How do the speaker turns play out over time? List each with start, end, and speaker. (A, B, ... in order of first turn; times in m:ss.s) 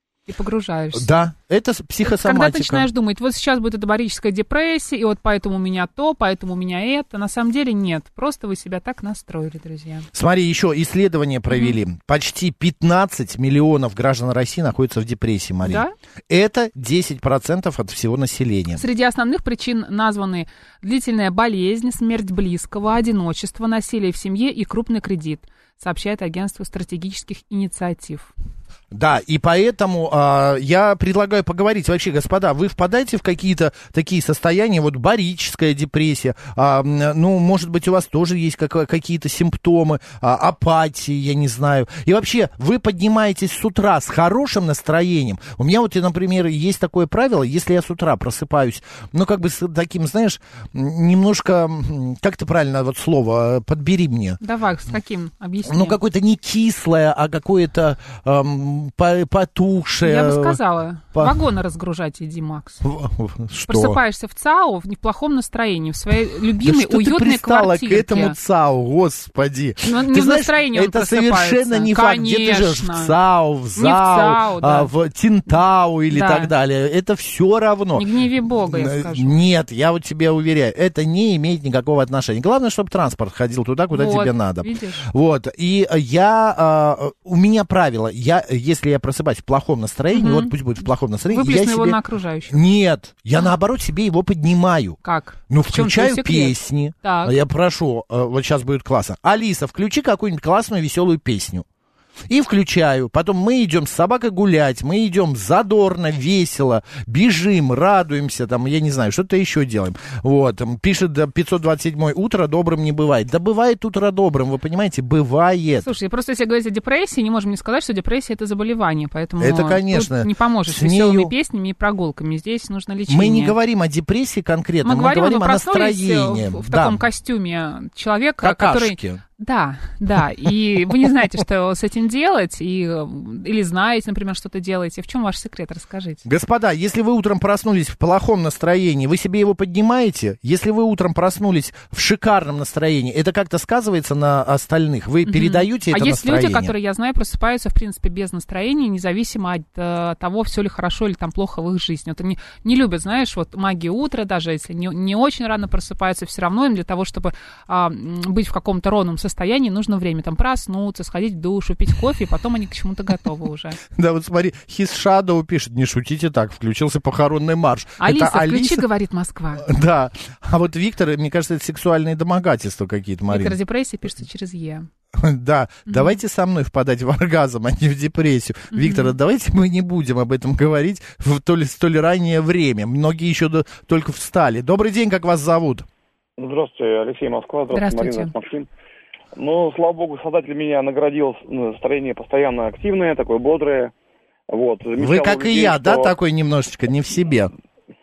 0:00.3-0:01.1 A
0:00.9-0:02.9 B
0:02.0-0:10.0 A
0:10.1-0:18.8 B
0:11.5-0:11.8 A
0:15.6-0:15.9 A
0:18.7-0:28.3 A
0:28.9-0:54.4 B
0:54.4-0:56.0 A
0:55.6-1:00.6 B
1:00.0-1:02.8 A
1:02.8-1:04.0 B
1:03.7-1:08.4 A
1:06.6-1:18.1 B
1:09.8-1:13.1 A
1:13.8-1:14.9 A
1:16.1-1:16.5 A
1:17.9-1:19.4 A
1:18.6-1:35.0 B
1:23.9-1:25.0 A
1:30.1-1:30.5 A
1:31.3-1:32.6 A
1:35.0-1:37.4 A
1:35.5-1:41.6 B
1:42.3-1:55.9 B
1:55.8-2:03.6 A
1:59.4-2:01.3 B
2:03.1-2:07.0 B
2:04.8-2:16.2 A
2:08.4-2:09.2 B
2:16.2-2:26.7 B
2:25.2-2:43.8 A
2:43.9-2:48.8 B
2:48.0-2:49.7 A
2:49.6-2:53.6 B
2:53.3-2:54.9 A
2:55.1-3:05.8 B
2:55.9-2:56.1 A
2:58.7-2:59.1 A
3:06.4-3:08.7 C
3:07.7-3:08.3 A
3:09.3-3:13.9 C
3:14.5-3:16.1 C
3:15.0-3:17.5 B